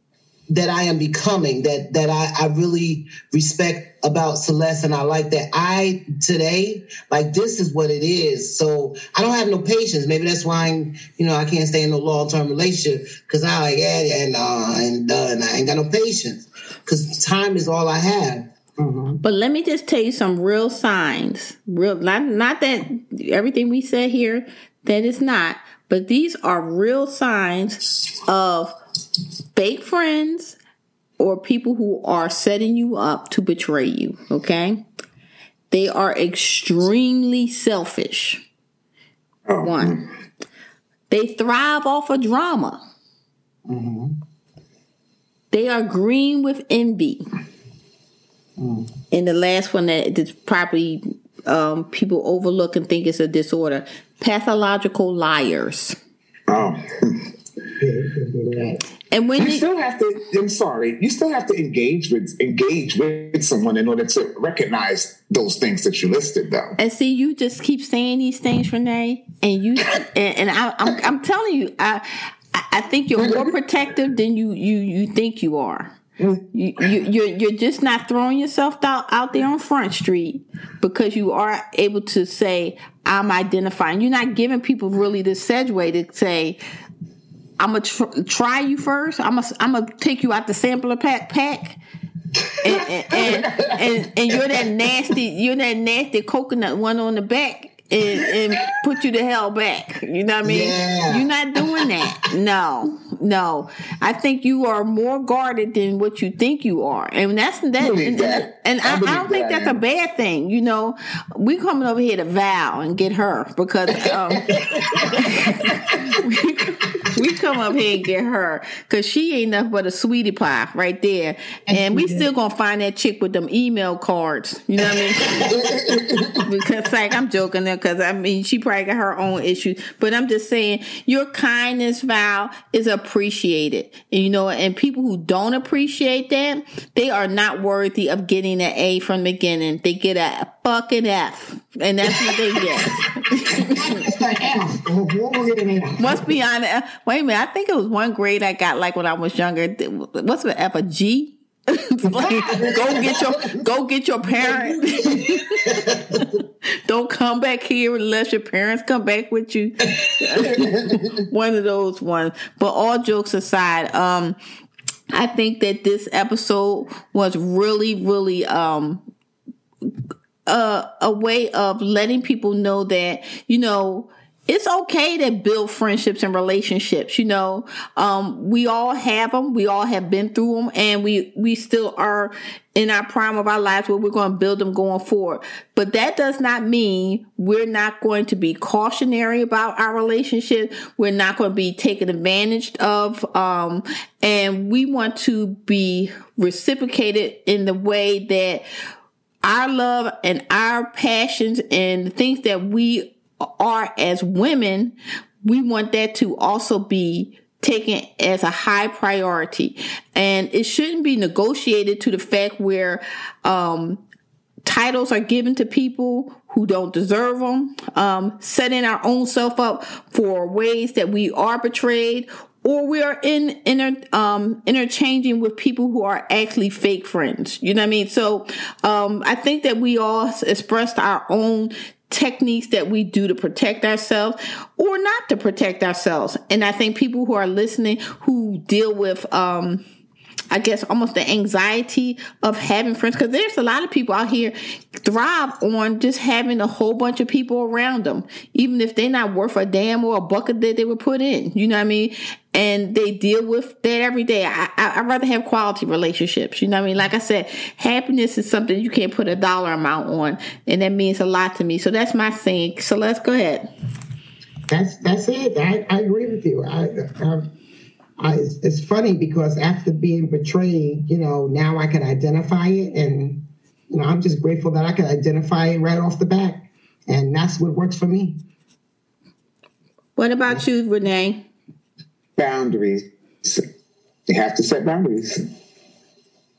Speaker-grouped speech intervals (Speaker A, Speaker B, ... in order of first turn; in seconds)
Speaker A: 0.5-18.5, 100.4-101.3, 154.3-156.2
Speaker B: 18.8-19.2, 43.6-44.1, 48.6-48.9, 57.8-58.8, 121.7-122.3, 142.6-142.9, 143.6-146.2, 152.2-152.9, 264.7-267.5, 268.2-278.4
Speaker C: 19.2-28.8, 29.5-30.6, 31.2-34.8, 35.7-38.4, 39.6-40.0, 41.1-42.8, 45.5-47.2, 49.1-56.0, 59.1-59.6, 66.8-76.0, 76.5-86.6, 87.6-91.8, 92.6-114.5, 115.2-125.5, 126.5-143.9, 146.0-156.2, 156.8-164.4, 165.1-169.0, 170.5-198.6, 199.4-214.0, 214.7-239.8, 240.5-263.7, 280.1-281.4
Speaker D: 39.5-40.0, 56.5-57.3, 59.4-66.8, 73.2-73.5, 76.2-76.8, 93.2-93.8, 107.8-109.8, 113.9-115.9, 125.4-126.5, 152.2-153.5, 160.4-161.1, 282.4-283.6, 284.3-285.4